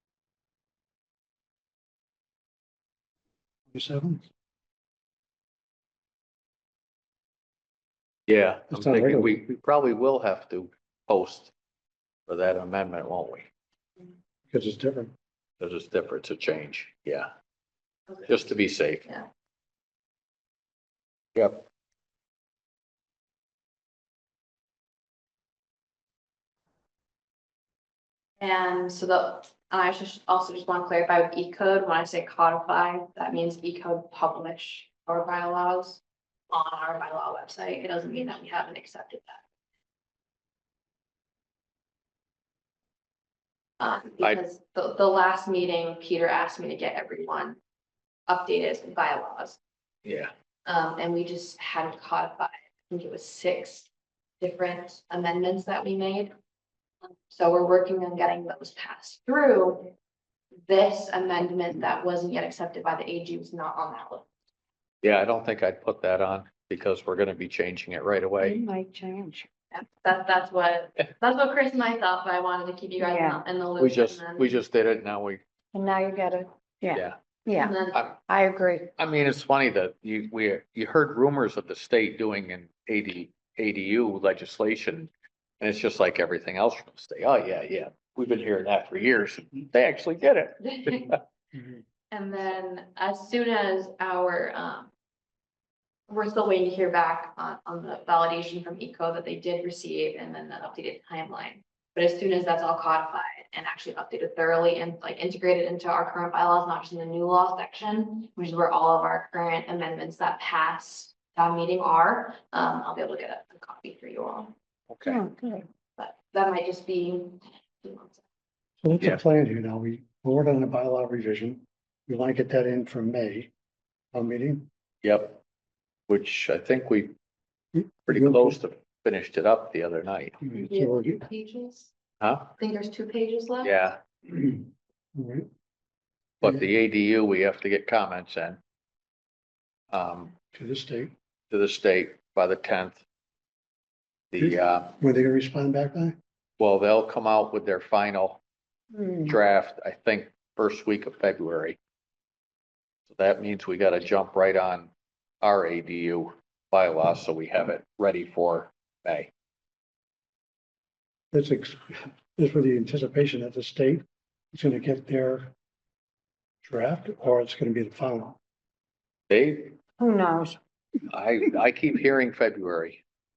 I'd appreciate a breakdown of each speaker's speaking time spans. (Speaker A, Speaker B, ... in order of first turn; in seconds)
Speaker A: 3.7-4.2, 8.7-9.3, 14.5-15.1, 118.8-123.5, 124.1-124.7, 127.7-128.6, 130.4-131.2, 134.3-134.6, 135.1-135.5, 140.5-141.1, 144.4-146.2, 161.3-165.5, 166.6-168.4
Speaker B: 8.3-11.5, 12.3-13.5, 15.6-17.3, 18.3-19.0, 21.3-21.6, 50.0-50.3, 65.0-68.6, 73.8-75.4, 77.9-78.2, 79.0-91.2, 114.9-115.2, 125.0-125.4, 126.1-127.1, 128.1-130.4, 132.2-132.5, 133.6-134.0, 136.4-138.6, 139.9-140.3, 141.5-143.0, 144.3-144.9, 146.6-148.4, 149.2-151.8, 153.1-154.9, 155.4-159.3, 169.3-169.8, 171.1-173.0
Speaker C: 18.1-18.4, 28.4-39.4, 43.8-47.6, 48.3-49.6, 50.6-53.9, 54.4-56.3, 57.0-59.9, 60.7-64.2, 69.7-74.6, 77.5-78.0, 90.6-91.2, 92.1-94.9, 96.1-114.5, 116.0-118.2, 130.5-131.9, 132.6-133.8
Speaker D: 68.4-69.5, 73.0-73.4, 75.7-77.8, 78.3-78.9, 115.0-115.7, 148.9-149.3, 170.0-170.6